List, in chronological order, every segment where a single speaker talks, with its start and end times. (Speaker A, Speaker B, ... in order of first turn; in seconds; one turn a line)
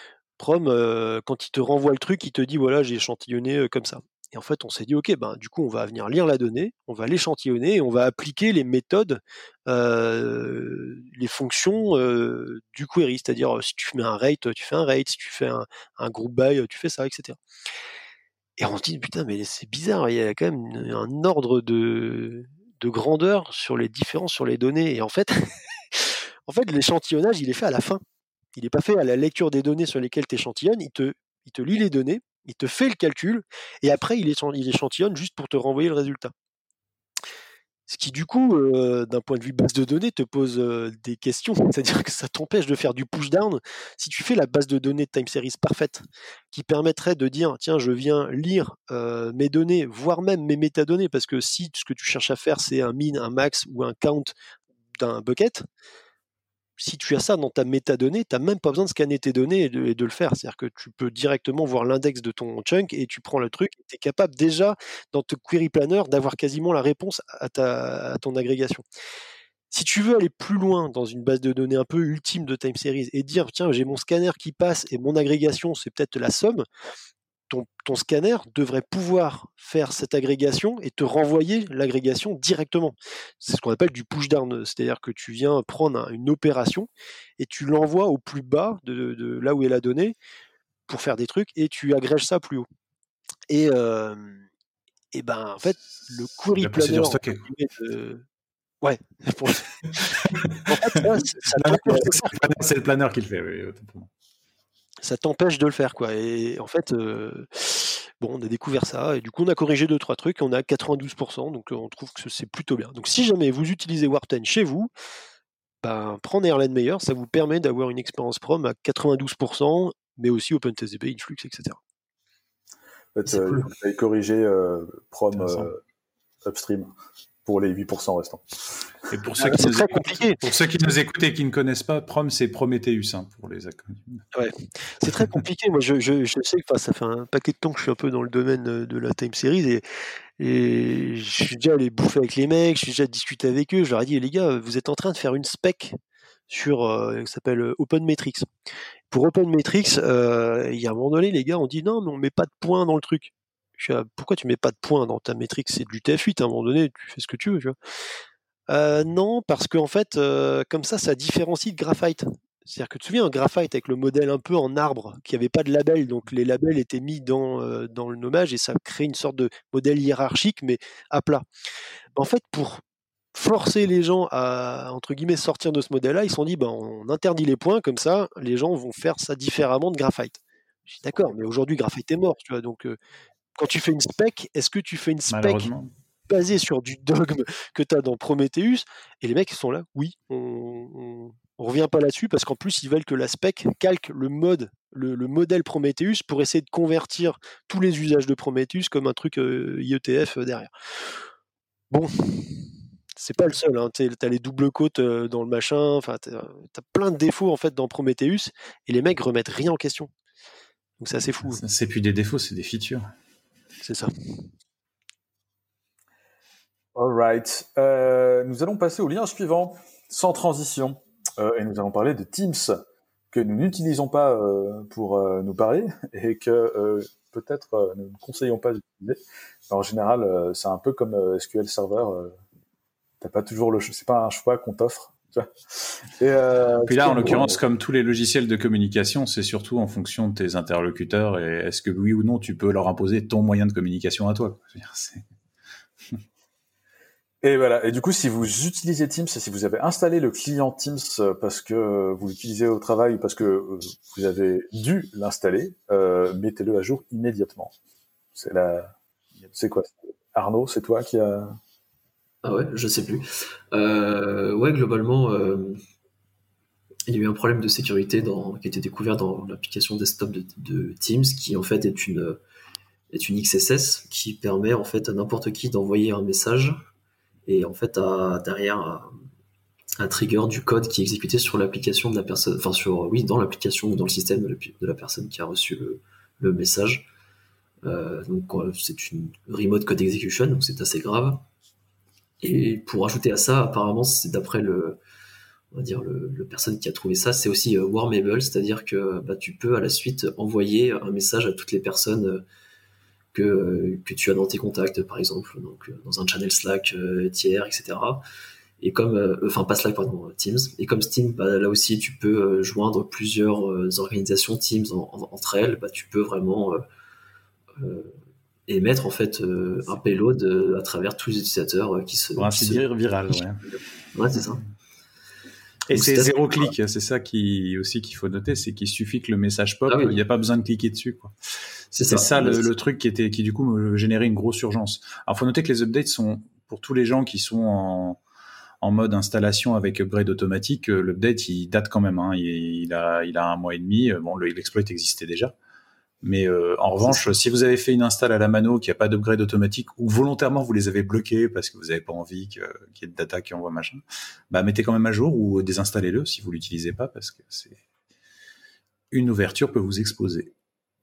Speaker A: 0.4-17.4
Speaker A: 18.6-28.0
Speaker A: 28.6-36.3
Speaker A: 37.9-54.3
Speaker A: 55.0-55.6
Speaker A: 56.8-68.8
Speaker A: 69.7-76.6
Speaker A: 77.5-90.2
Speaker A: 90.9-92.7
Speaker A: 93.5-94.4
Speaker A: 95.1-98.2
Speaker B: 96.5-97.4
Speaker A: 98.8-102.5
Speaker B: 101.5-104.1
Speaker A: 105.0-114.9
Speaker A: 115.8-121.8
Speaker C: 123.1-125.8
Speaker D: 123.3-123.7
Speaker B: 125.3-125.7
Speaker C: 126.4-126.9
Speaker C: 127.5-128.5
Speaker B: 129.1-134.2
Speaker A: 129.4-130.4
Speaker A: 134.3-139.8
Speaker A: 140.4-146.0
Speaker A: 146.5-148.5
Speaker A: 149.1-157.7
Speaker A: 158.7-171.4
Speaker A: 172.2-172.8
Speaker A: 173.3-180.4
Speaker A: 181.0-183.0
Speaker A: 183.6-185.7
Speaker B: 185.3-185.9
Speaker A: 186.3-201.1
Speaker A: 201.9-210.1
Speaker A: 211.0-211.6
Speaker B: 211.4-213.1
Speaker A: 213.8-214.1
Speaker C: 216.9-222.8
Speaker C: 223.3-232.3
Speaker C: 233.2-237.6
Speaker B: 236.8-245.2
Speaker C: 247.4-257.7
Speaker C: 258.3-258.9
Speaker C: 259.5-261.6
Speaker D: 262.4-265.8
Speaker D: 267.1-272.4
Speaker D: 273.1-276.8
Speaker D: 277.4-279.1
Speaker D: 280.0-287.1
Speaker D: 287.8-291.4
Speaker D: 292.4-295.0
Speaker D: 295.7-302.4
Speaker D: 303.3-308.2
Speaker D: 308.8-316.8
Speaker D: 317.8-318.1
Speaker D: 318.7-324.6
Speaker B: 322.4-323.8
Speaker B: 325.9-331.3
Speaker D: 325.9-326.7
Speaker D: 329.9-330.2
Speaker D: 331.9-332.7
Speaker B: 332.0-338.2
Speaker B: 338.8-345.5
Speaker B: 346.2-357.8
Speaker D: 347.0-347.3
Speaker B: 359.1-360.5